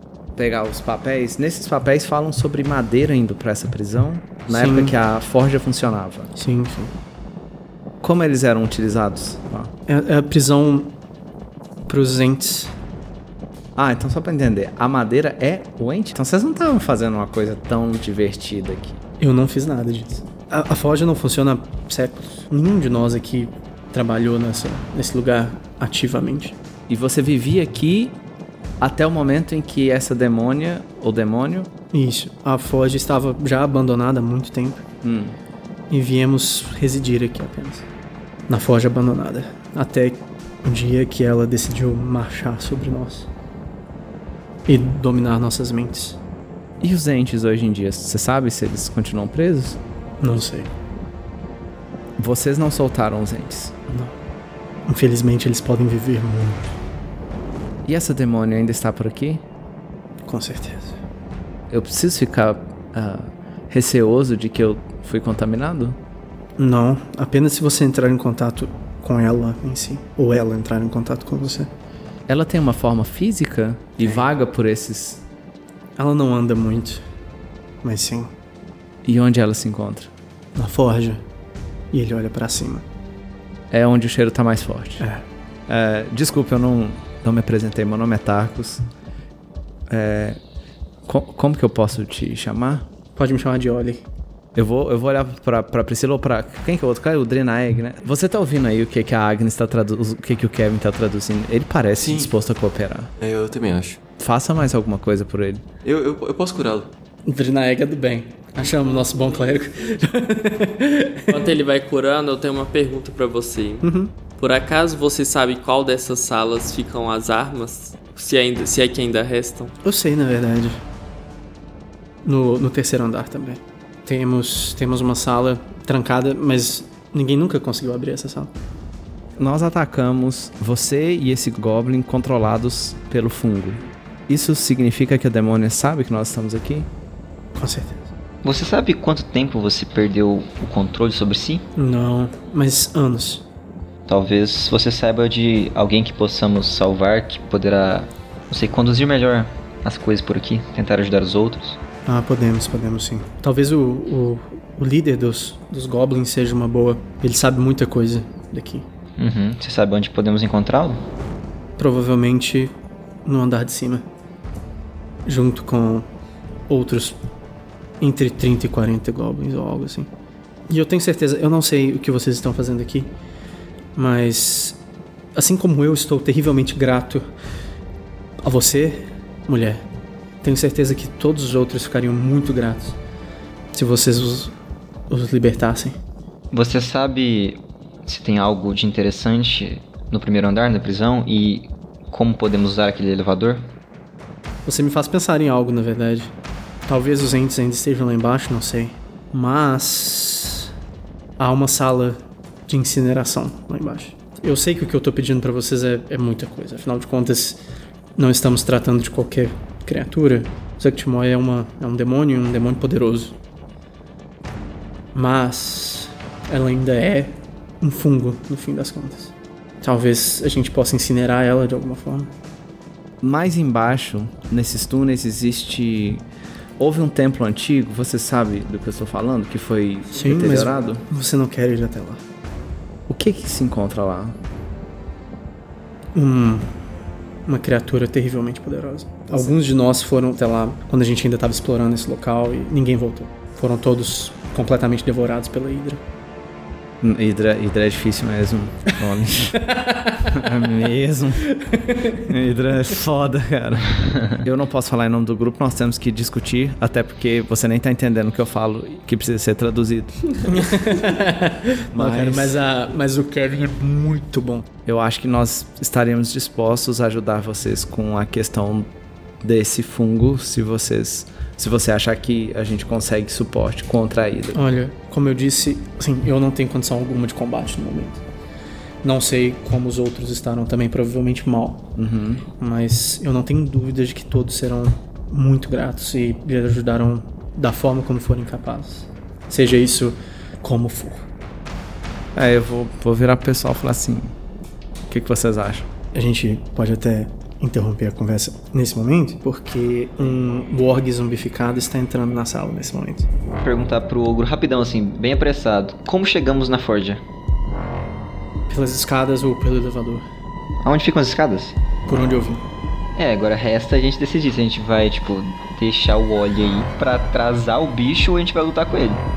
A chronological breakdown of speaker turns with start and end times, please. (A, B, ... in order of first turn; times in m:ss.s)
0:00.4-0:06.3 A
0:04.5-0:05.0 B
0:06.3-0:06.9 B
0:08.0-0:09.7 A
0:09.9-0:11.0 B
0:11.9-0:12.7 B
0:13.8-0:19.0 A
0:19.2-0:26.5 B
0:26.9-0:28.2 A
0:28.8-0:31.7 A
0:31.9-0:34.8 B
0:35.0-0:35.4 A
0:35.9-0:37.8 B
0:38.5-0:43.3 B
0:44.7-0:46.2 B
0:46.8-0:49.8 A
0:50.2-0:50.7 B
0:52.2-0:53.7 A
0:53.9-0:54.1 B
0:54.9-0:56.7 B
0:57.8-0:59.4 A
1:00.2-1:01.0 B
1:01.7-1:06.0 A
1:06.6-1:11.7 B
1:12.3-1:15.2 A
1:16.0-1:17.0 B
1:17.8-1:18.3 B
1:19.0-1:20.1 A
1:20.5-1:21.2 B
1:21.9-1:22.8 B
1:23.7-1:25.0 A
1:25.0-1:25.2 B
1:25.7-1:28.8 A
1:29.9-1:30.4 A
1:31.0-1:32.9 A
1:33.2-1:34.0 B
1:34.5-1:43.1 A
1:42.0-1:42.3 C
1:43.2-1:44.0 C
1:44.2-1:45.6 A
1:45.8-1:46.9 C
1:47.2-1:51.5 B
1:51.3-1:59.7 D
1:53.8-1:54.1 B
1:59.8-2:00.8 B
2:02.2-2:08.6 B
2:09.4-2:16.9 A
2:17.6-2:18.0 B
2:18.4-2:21.6 E
2:21.8-2:23.4 B
2:24.1-2:31.8 E
2:32.0-2:38.8 B
2:39.2-2:41.0 E
2:41.8-2:42.7 B
2:43.2-2:44.0 B
2:45.2-2:46.1 B
2:46.7-2:47.2 B
2:48.0-2:50.1 B
2:50.7-2:53.1 B
2:54.0-2:54.8 B
2:55.3-2:57.2 B
2:58.4-2:59.8 B
3:00.4-3:03.0 B
3:03.7-3:04.5 B
3:05.1-3:06.0 B
3:06.5-3:13.7 E
3:14.6-3:16.3 B
3:16.9-3:20.7 B
3:21.4-3:27.6 B
3:28.2-3:33.4 B
3:35.1-3:42.3 B
3:43.2-3:46.2 A
3:46.8-3:51.0 A
3:50.1-3:52.2 B
3:53.1-3:54.4 A
3:56.1-3:56.7 B
3:57.4-4:06.0 B
4:07.0-4:09.7 A
4:09.5-4:10.4 B
4:10.2-4:11.5 A
4:11.5-4:12.3 B
4:12.1-4:20.4 A
4:20.4-4:24.7 B
4:21.9-4:22.6 A
4:24.8-4:28.9 A
4:29.4-4:34.6 A
4:34.5-4:38.2 B
4:39.0-4:41.9 B
4:42.0-4:42.4 A
4:42.6-4:51.2 B
4:52.3-4:54.3 A
4:55.1-4:55.9 A
4:56.1-5:03.3 B
5:03.6-5:07.2 E
5:08.7-5:10.2 B
5:10.8-5:11.8 E
5:12.1-5:12.6 B
5:13.2-5:19.2 E